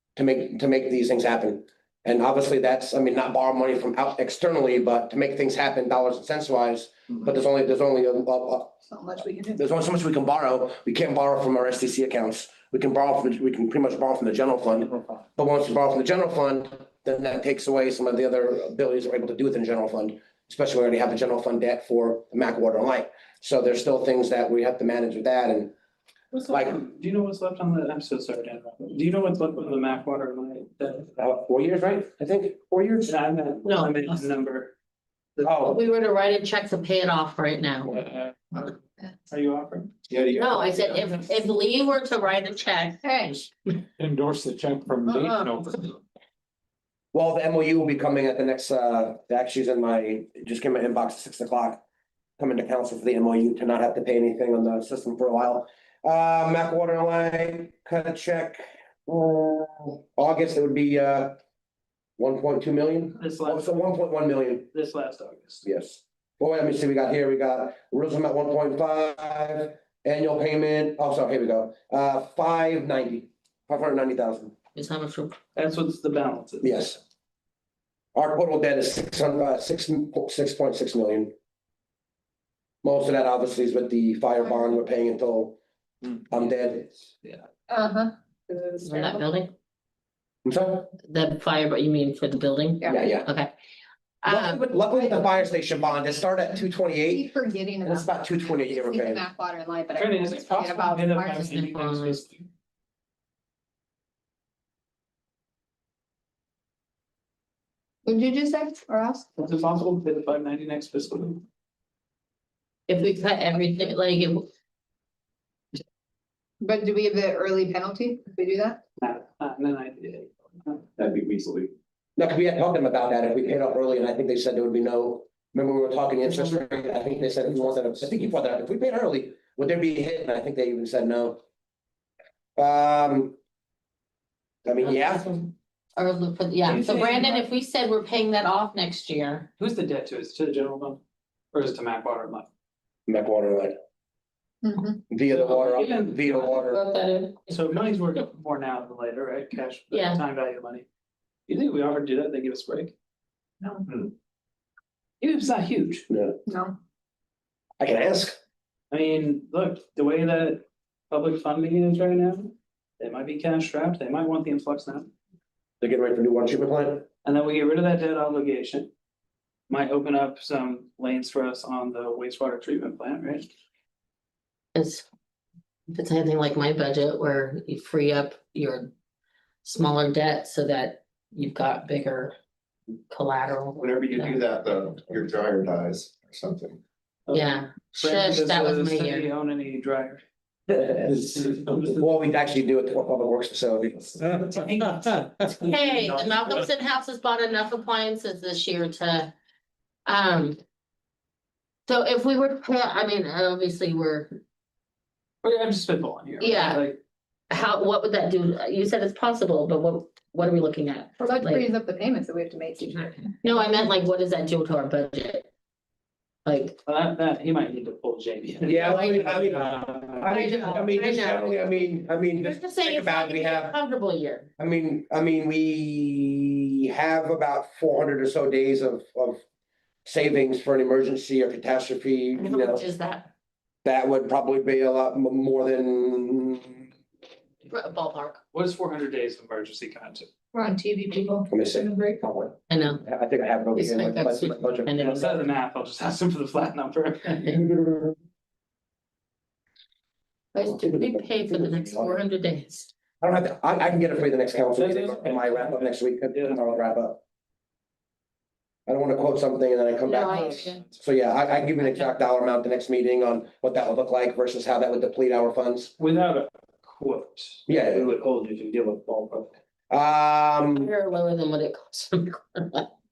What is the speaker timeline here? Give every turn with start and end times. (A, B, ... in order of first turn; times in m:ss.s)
0:00.2-0:08.8 A
0:08.9-0:09.6 B
0:09.6-0:25.7 A
0:26.3-0:31.1 C
0:26.5-0:26.8 A
0:31.2-0:33.2 A
0:33.0-0:34.7 C
0:33.6-0:34.1 D
0:35.4-0:35.8 A
0:35.6-0:38.1 D
0:38.0-0:38.5 E
0:39.3-0:39.9 C
0:40.1-0:40.7 F
0:40.3-0:43.2 D
0:43.0-0:43.4 B
0:44.0-0:46.0 E
0:45.1-0:45.5 B
0:47.1-0:51.8 A
0:52.4-1:01.4 A
1:02.2-1:04.7 A
1:03.2-1:03.8 C
1:04.7-1:05.6 C
1:05.6-1:14.6 A
1:14.8-1:15.4 D
1:15.6-1:16.7 C
1:16.6-1:17.0 A
1:18.2-1:21.3 A
1:22.8-1:25.6 A
1:26.1-1:26.9 A
1:27.7-1:29.2 B
1:28.8-1:29.5 D
1:30.4-1:30.9 A
1:31.0-1:33.5 D
1:32.9-1:33.3 A
1:34.2-1:34.6 D
1:34.3-1:37.3 A
1:34.8-1:35.4 B
1:37.0-1:41.6 B
1:37.8-1:39.3 A
1:40.0-1:42.5 C
1:41.5-1:42.2 D
1:48.0-1:49.4 B
1:49.4-1:51.4 C
1:52.9-1:54.5 D
1:56.6-1:58.8 B
1:59.0-2:00.9 C
2:01.0-2:01.7 F
2:02.2-2:11.4 A
2:12.6-2:13.4 A
2:14.7-2:15.3 A
2:14.8-2:19.5 D
2:16.6-2:17.5 C
2:19.6-2:21.0 C
2:21.5-2:22.5 C
2:23.1-2:23.8 A
2:24.6-2:25.0 B
2:25.1-2:26.8 A
2:25.3-2:26.8 C
2:26.6-2:27.5 D
2:27.5-2:30.9 C
2:29.9-2:30.2 D
2:31.5-2:32.9 C
2:35.2-2:36.0 C
2:36.1-2:36.4 A
2:36.5-2:36.8 B
2:37.8-2:38.4 A
2:38.9-2:45.1 C
2:45.8-2:47.1 A
2:47.2-2:48.9 C
2:49.7-2:53.5 C
2:54.8-2:55.0 D
2:55.9-2:58.9 D
2:59.6-3:02.4 D
3:03.1-3:04.3 D
3:03.8-3:06.8 F
3:07.3-3:10.2 C
3:07.3-3:09.3 D
3:10.7-3:14.4 A
3:11.3-3:12.0 C
3:14.4-3:16.6 C
3:15.6-3:19.3 D
3:20.1-3:20.6 D
3:21.9-3:24.4 D
3:25.4-3:27.0 C
3:26.4-3:26.9 D
3:27.5-3:31.7 D
3:31.2-3:33.7 B
3:33.4-3:35.5 D
3:36.5-3:36.8 D
3:36.9-3:39.4 C
3:38.6-3:43.8 A
3:38.8-3:39.5 D
3:40.3-3:41.9 D
3:42.4-3:44.5 D
3:44.6-3:49.4 A
3:50.0-3:52.8 A
3:52.4-3:53.3 D
3:53.8-3:56.9 A
3:57.7-3:58.4 D
3:58.5-4:00.3 C
4:00.5-4:02.2 B
4:01.5-4:04.9 A
4:02.7-4:03.0 D
4:03.8-4:05.4 D
4:05.0-4:07.6 C
4:07.5-4:08.2 A
4:10.6-4:12.9 D
4:10.6-4:12.2 A
4:13.2-4:17.2 A
4:14.8-4:16.6 C
4:18.9-4:25.9 A
4:20.0-4:20.8 D
4:21.8-4:22.1 D
4:26.0-4:29.6 C
4:27.7-4:28.1 A
4:29.9-4:30.9 A
4:30.8-4:32.9 D